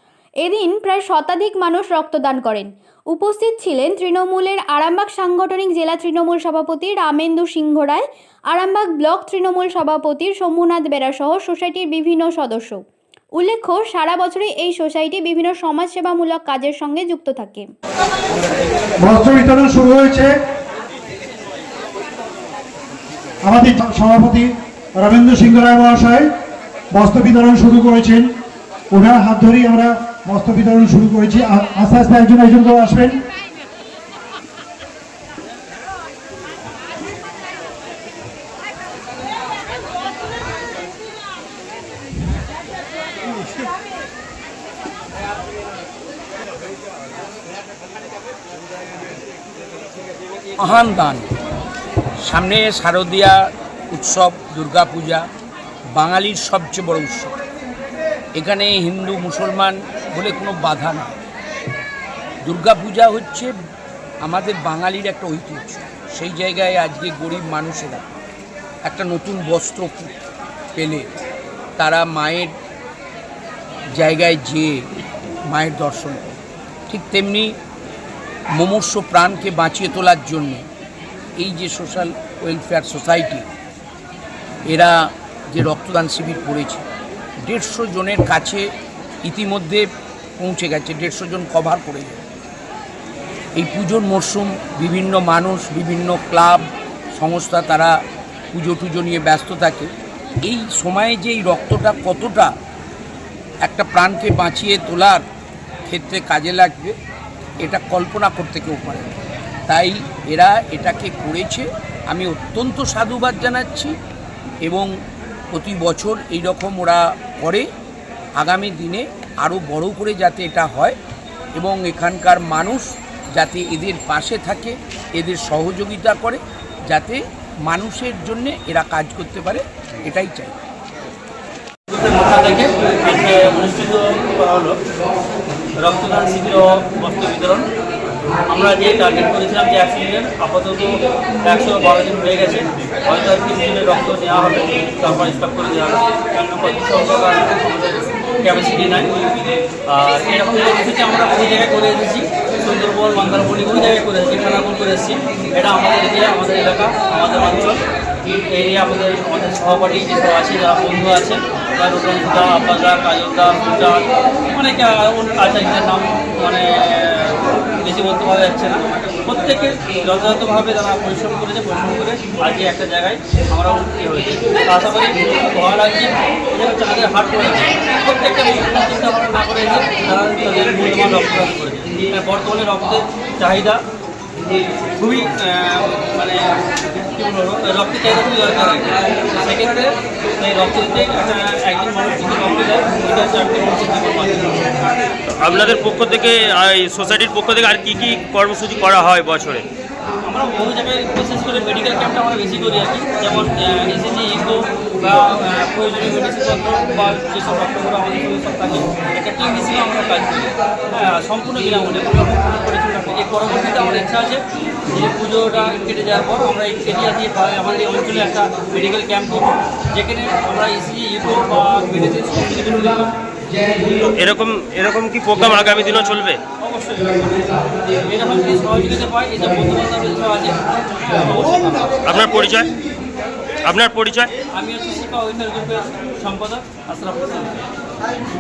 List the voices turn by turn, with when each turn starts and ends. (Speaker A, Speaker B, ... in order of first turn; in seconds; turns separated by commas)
Speaker A: 0.4-12.8, Speaker A: 13.4-17.7, Speaker B: 19.0-20.4, Speaker B: 23.4-26.3, Speaker B: 26.9-28.3, Speaker B: 28.9-33.2, Speaker C: 50.6-51.3, Speaker C: 52.2-53.4, Speaker C: 53.9-55.2, Speaker C: 56.0-57.3, Speaker C: 58.4-61.1, Speaker C: 62.5-63.5, Speaker C: 64.2-68.0, Speaker C: 68.8-70.1, Speaker C: 70.7-71.1, Speaker C: 71.8-72.5, Speaker C: 74.0-74.8, Speaker C: 75.5-77.5, Speaker C: 78.6-80.6, Speaker C: 81.4-83.5, Speaker C: 85.5-86.8, Speaker C: 87.4-88.6, Speaker C: 89.2-89.8, Speaker C: 90.4-92.2, Speaker C: 93.6-96.7, Speaker C: 97.2-97.9, Speaker C: 98.5-99.9, Speaker C: 100.4-102.5, Speaker C: 103.7-105.2, Speaker C: 105.9-107.0, Speaker C: 107.6-109.1, Speaker C: 109.7-113.9, Speaker C: 114.6-114.9, Speaker C: 115.5-117.7, Speaker C: 118.4-121.0, Speaker C: 121.5-130.6, Speaker D: 131.9-134.8, Speaker D: 135.8-137.6, Speaker D: 138.5-140.9, Speaker D: 141.4-149.3, Speaker D: 149.9-157.8, Speaker D: 158.5-183.8, Speaker D: 185.0-194.9, Speaker E: 195.3-199.7, Speaker D: 200.3-223.1, Speaker E: 223.9-226.4, Speaker D: 226.6-227.5, Speaker D: 228.1-232.0, Speaker E: 232.1-232.7, Speaker E: 233.6-234.3, Speaker D: 234.5-237.7